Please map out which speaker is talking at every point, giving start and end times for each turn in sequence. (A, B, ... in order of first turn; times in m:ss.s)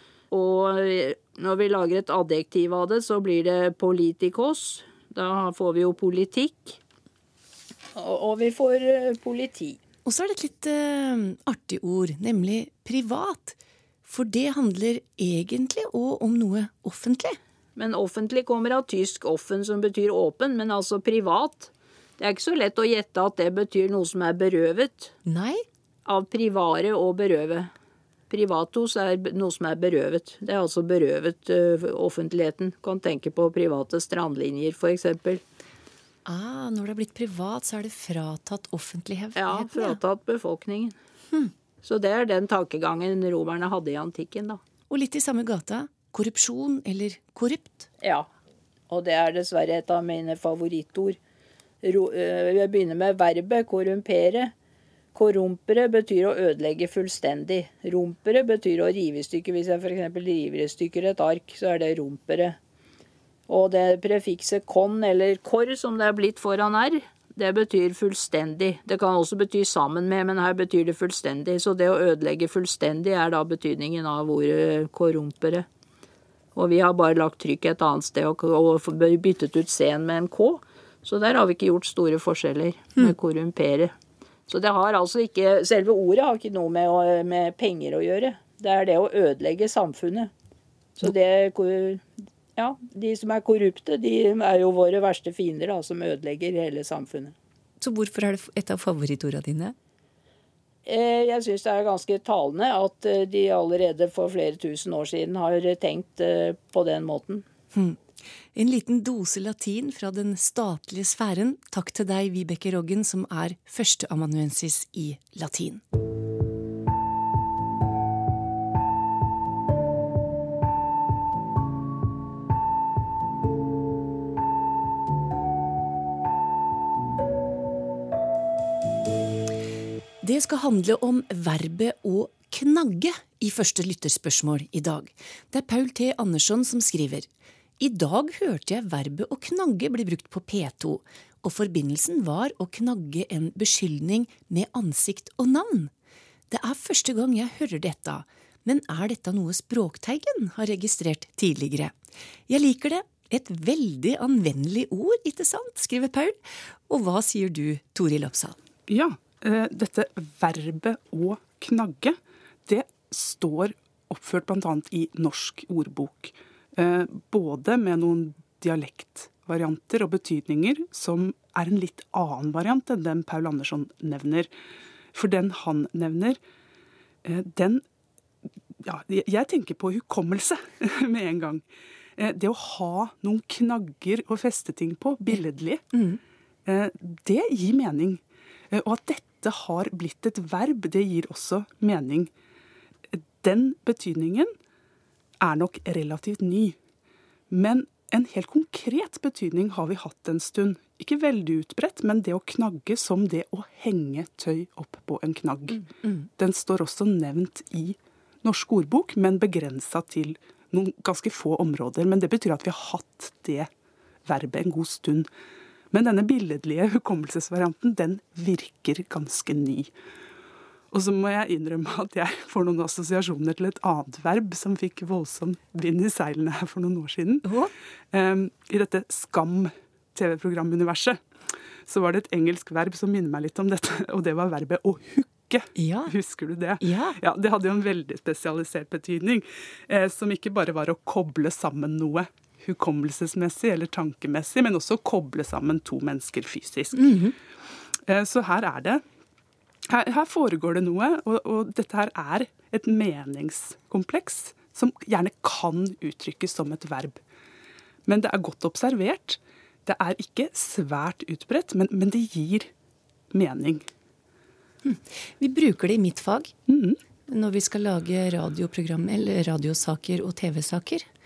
0:00.3-0:06.8 A
0:07.9-0:09.8 A
0:10.0-0:17.4 B
0:17.8-0:25.1 A
0:25.2-0:25.6 B
0:26.0-0:27.7 A
0:28.3-0:35.4 A
0:36.2-0:39.9 B
0:39.4-0:40.9 A
0:41.8-0:44.6 A
0:44.9-0:47.9 B
0:48.0-0:48.3 A
0:48.9-0:51.2 A
0:51.8-0:54.5 A
0:55.1-1:02.6 A
1:03.5-1:15.6 A
1:16.5-1:23.9 A
1:24.5-1:30.3 A
1:31.0-1:37.3 A
1:37.8-1:39.8 B
1:40.8-1:47.4 A
1:47.7-1:48.0 B
1:48.5-1:55.8 B
2:10.2-2:17.3 B
2:17.8-2:25.9 B
2:26.5-2:31.9 B
2:32.5-2:38.6 B
2:38.9-2:54.5 C
2:55.1-2:56.4 C
2:57.2-2:57.8 C
2:58.8-3:01.6 C
3:02.2-3:05.8 C
3:05.9-3:06.2 B
3:06.6-3:08.2 C
3:08.7-3:12.3 C
3:13.1-3:14.5 C
3:15.4-3:16.8 C
3:17.5-3:25.8 C
3:26.4-3:33.7 C
3:34.2-3:35.3 C
3:35.9-3:39.9 C
3:40.9-3:47.5 C
3:47.4-3:47.7 B
3:48.1-3:51.2 C
3:51.9-4:07.1 C
3:55.8-3:56.1 B
3:56.8-3:57.2 B
4:06.9-4:07.3 B
4:08.0-4:09.0 C
4:09.9-4:17.2 C
4:18.0-4:22.7 C
4:23.3-4:23.8 C
4:24.8-4:26.5 B
4:26.7-4:27.0 C
4:27.3-4:31.0 B